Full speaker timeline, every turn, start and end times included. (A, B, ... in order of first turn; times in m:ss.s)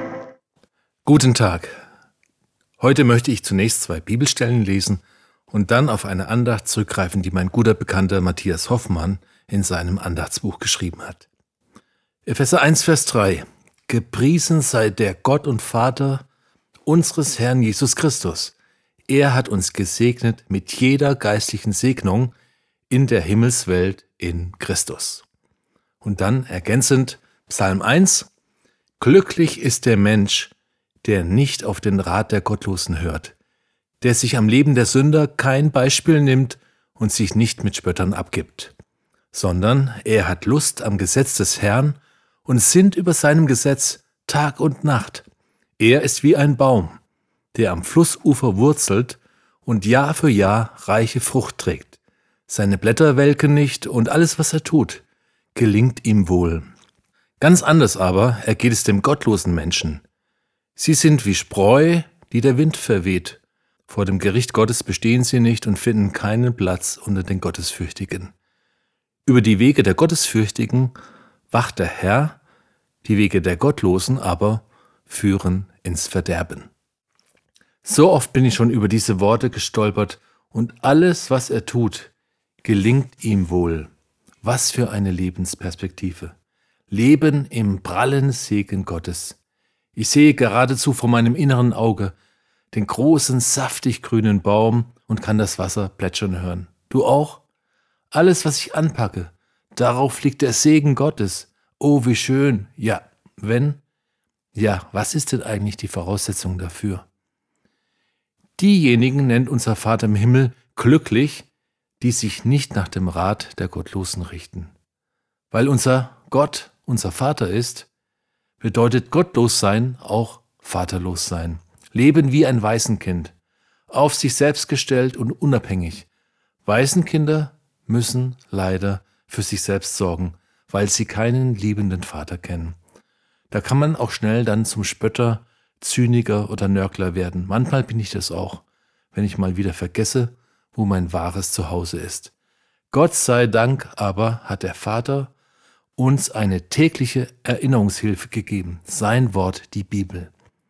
0:01.0-0:01.7 A
0:02.8-0:11.3 A
0:12.2-0:16.2 A
0:16.8-0:18.6 A
0:19.1-0:22.3 A
0:22.9-0:25.2 A
0:26.0-0:28.3 A
0:29.0-0:33.4 A
0:34.0-0:38.7 A
0:39.3-0:45.3 A
0:45.8-0:47.0 A
0:47.5-0:56.7 A
0:57.4-1:00.0 A
1:00.8-1:08.3 A
1:09.2-1:11.0 A
1:11.5-1:12.4 A
1:13.0-1:16.7 A
1:17.8-1:22.1 A
1:22.6-1:23.9 A
1:24.4-1:26.4 A
1:26.9-1:29.4 A
1:29.9-1:32.2 A
1:32.7-1:37.4 A
1:38.1-1:43.8 A
1:44.5-1:47.0 A
1:48.6-1:51.5 A
1:52.0-1:54.7 A
1:55.5-1:57.9 A
1:58.6-2:03.3 A
2:03.9-2:06.1 A
2:06.6-2:12.8 A
2:13.5-2:22.3 A
2:22.9-2:25.3 A
2:26.0-2:30.3 A